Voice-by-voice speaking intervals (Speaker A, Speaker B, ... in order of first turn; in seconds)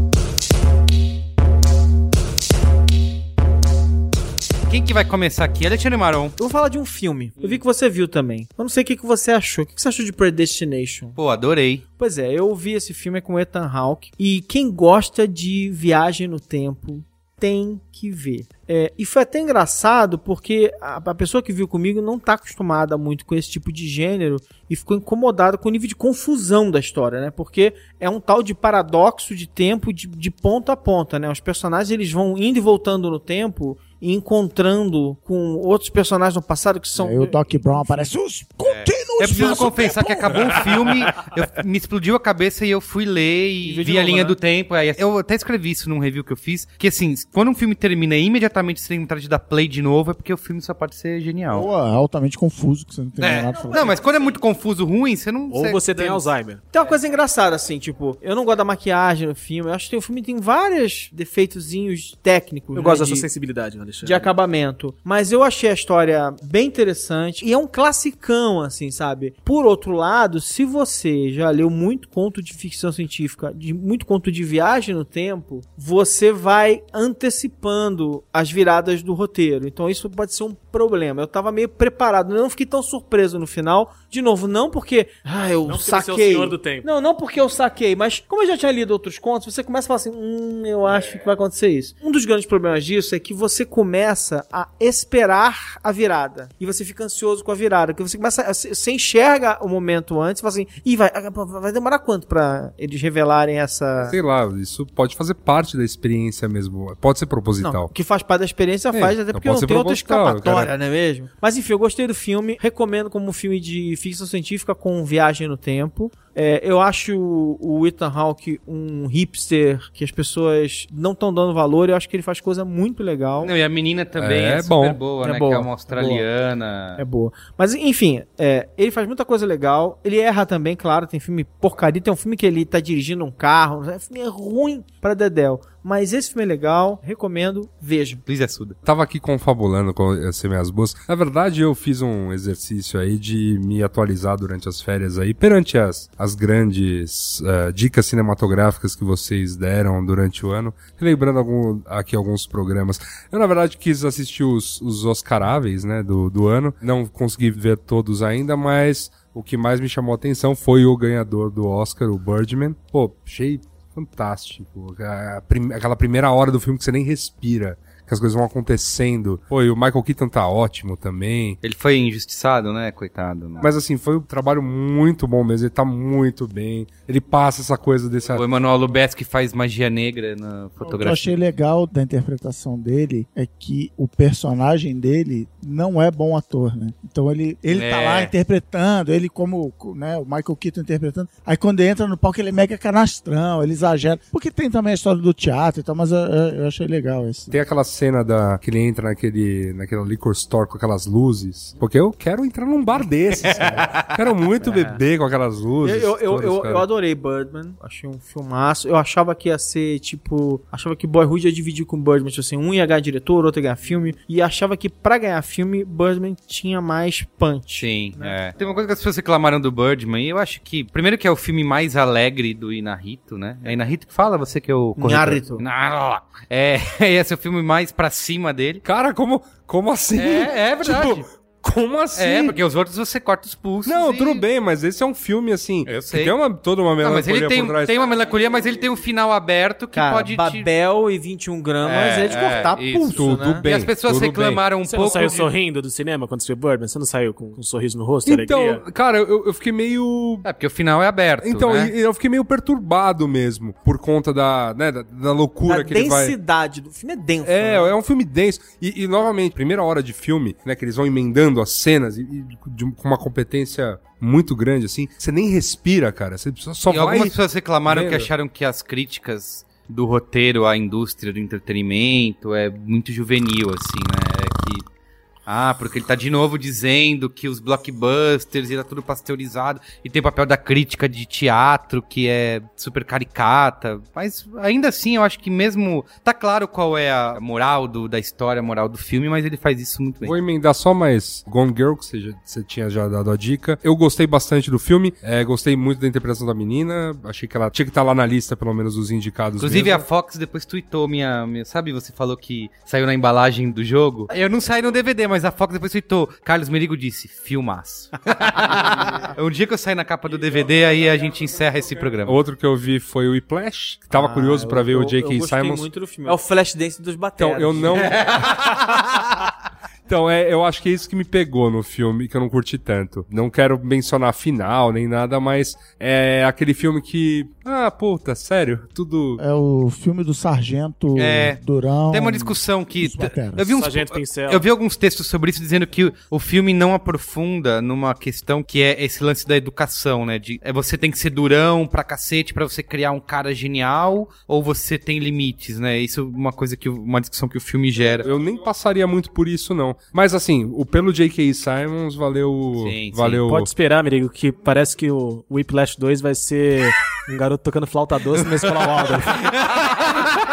Speaker A: 4.7-6.4, 11.2-11.8, 38.6-51.7, 53.2-56.2, 123.4-127.0, 138.3-138.8, 171.6-173.7, 178.3-181.4, 187.7-188.3, 203.4-204.1, 217.8-228.8, 230.2-231.2, 232.1-234.4, 235.9-236.4, 237.0-240.7, 241.8-245.5, 250.4-251.9, 266.9-274.9, 275.5-290.4, 299.6-312.4, 331.2-331.6, 332.1-348.3, 352.8-353.4, 359.4-360.2
Speaker B: 6.4-11.2, 12.0-38.1, 43.6-44.3, 56.7-63.3, 64.0-104.2, 107.6-123.5, 125.2-126.3, 127.0-138.2, 204.6-205.0, 205.8-218.4, 225.0-225.6, 239.9-243.6, 255.7-257.9, 314.1-318.2
Speaker C: 37.0-40.7, 51.5-54.0, 180.9-197.6, 329.4-333.8
Speaker D: 43.8-44.3, 55.5-56.6, 62.7-64.3, 85.6-86.9, 244.8-248.8, 333.7-334.7, 353.5-359.4
Speaker E: 104.0-107.9, 108.9-110.7, 124.2-125.0, 138.8-171.6, 173.6-178.4, 197.5-206.9, 228.8-232.6, 233.8-237.9, 243.1-244.7, 248.2-250.5, 251.4-256.3, 257.4-268.3, 290.2-300.1, 312.3-315.9, 317.4-319.1, 320.1-329.4, 348.2-353.7